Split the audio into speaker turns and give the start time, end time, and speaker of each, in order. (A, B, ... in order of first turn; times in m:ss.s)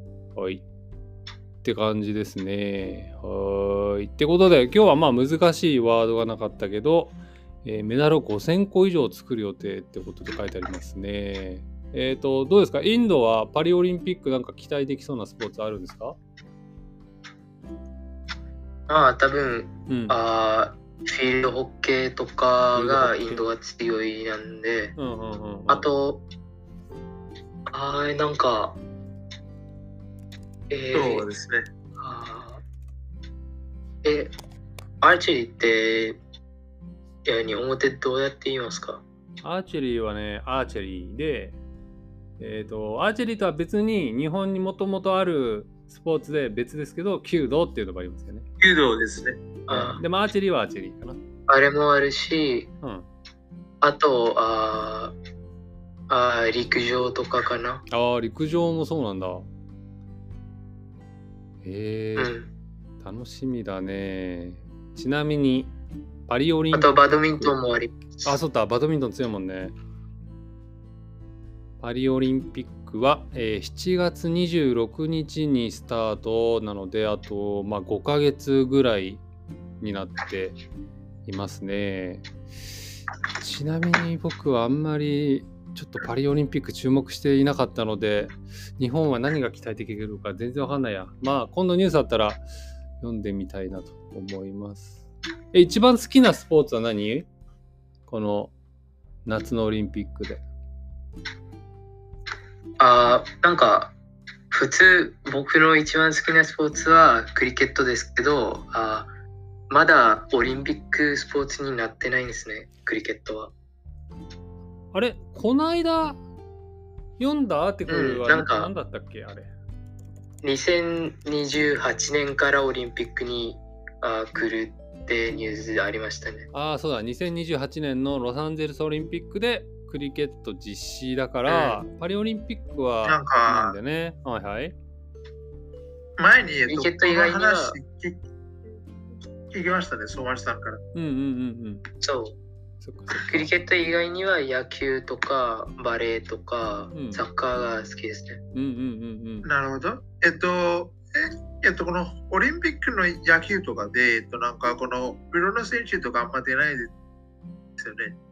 0:00.4-0:00.6 A
0:01.6-0:16.2 A
0:18.9-0:25.0 B
0:19.9-0:20.2 A
0:22.7-0:23.5 A
0:25.0-0:25.9 A
0:25.7-0:26.2 B
0:27.7-0:28.8 B
0:30.7-0:31.3 B
0:30.9-0:31.7 C
0:32.0-0:32.6 B
0:34.0-0:34.3 B
0:35.0-0:36.2 B
0:37.2-0:39.0 B
0:39.4-0:41.6 A
0:42.4-0:48.4 A
0:48.6-0:49.4 C
0:49.7-0:50.0 B
0:49.7-0:51.2 A
0:51.5-0:52.7 B
0:52.8-0:53.1 A
0:53.8-0:55.1 B
0:56.1-0:57.8 B
0:57.9-0:59.4 A
1:01.6-1:02.3 A
1:02.2-1:02.5 B
1:03.0-1:05.7 A
1:06.3-1:07.6 A
1:06.7-1:08.4 B
1:08.2-1:09.7 A
1:11.8-1:19.2 A
1:19.8-1:20.6 A
1:21.2-1:22.2 A
1:23.4-1:32.4 A
1:33.0-1:35.0 A
1:35.5-1:37.3 A
1:38.1-1:38.5 A
1:39.2-1:40.4 A
1:42.8-1:43.9 B
1:44.5-1:49.1 B
1:49.7-1:53.5 B
1:54.9-1:56.2 A
1:57.2-1:59.5 A
1:57.9-1:58.7 B
2:00.4-2:06.5 B
2:06.5-2:14.7 A
2:11.5-2:11.8 B
2:13.0-2:13.8 C
2:16.2-2:18.2 C
2:16.7-2:17.8 B
2:19.5-2:20.8 C
2:20.9-2:21.8 A
2:22.0-2:22.4 B
2:22.8-2:23.5 A
2:23.1-2:28.4 B
2:26.9-2:27.2 A
2:28.5-2:29.5 A
2:29.4-2:36.9 C
2:37.8-2:38.2 C